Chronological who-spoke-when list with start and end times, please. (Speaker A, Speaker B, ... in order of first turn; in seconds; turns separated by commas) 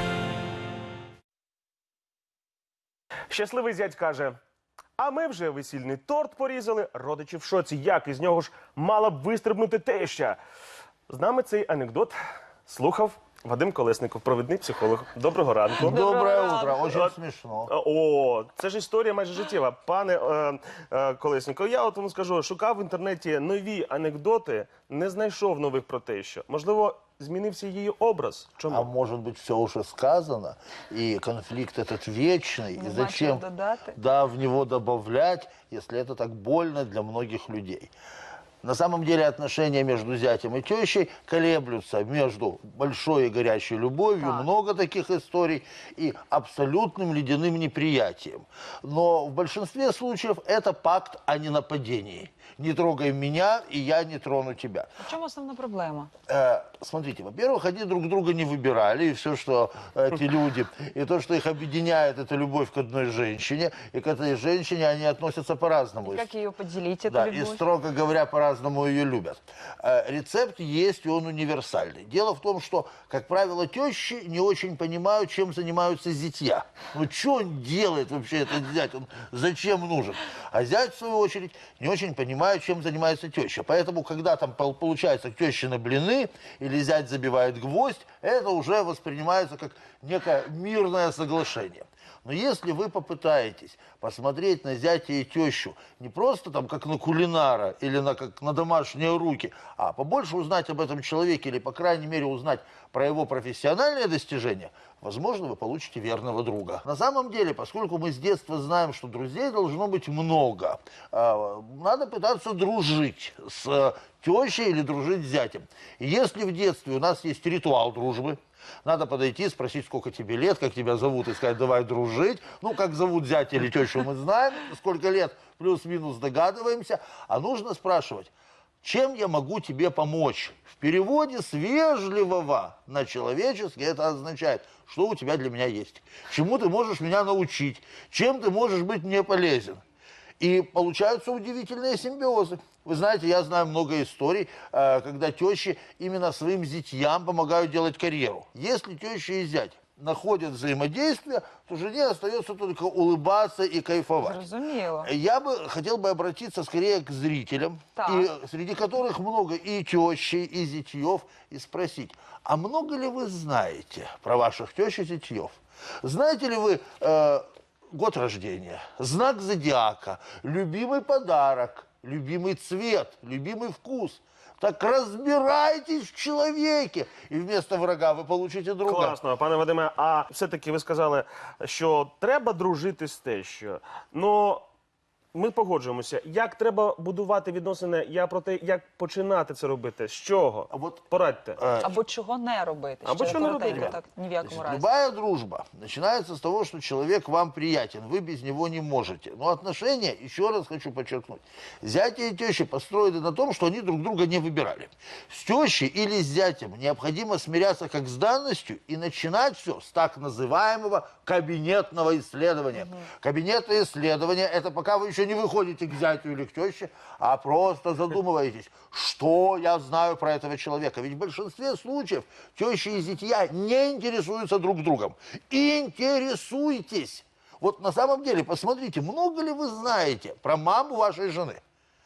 Speaker A: 3.3-4.4, Speaker A: 5.0-10.4, Speaker A: 11.1-16.0, Speaker B: 15.8-17.7, Speaker C: 16.0-16.8, Speaker A: 16.9-17.1, Speaker A: 17.7-28.9, Speaker B: 28.7-37.9, Speaker C: 32.7-34.0, Speaker B: 38.6-54.9, Speaker C: 44.2-44.5, Speaker C: 55.0-56.1, Speaker B: 56.3-66.3, Speaker C: 66.0-67.6, Speaker B: 67.1-128.3, Speaker B: 128.8-139.8, Speaker B: 140.4-154.4, Speaker C: 154.2-155.1, Speaker B: 155.0-179.2, Speaker C: 158.0-158.3, Speaker A: 178.8-184.6, Speaker A: 185.3-191.6, Speaker B: 190.7-191.0, Speaker B: 191.6-192.0, Speaker C: 191.8-194.9, Speaker A: 193.1-194.0, Speaker B: 193.2-231.6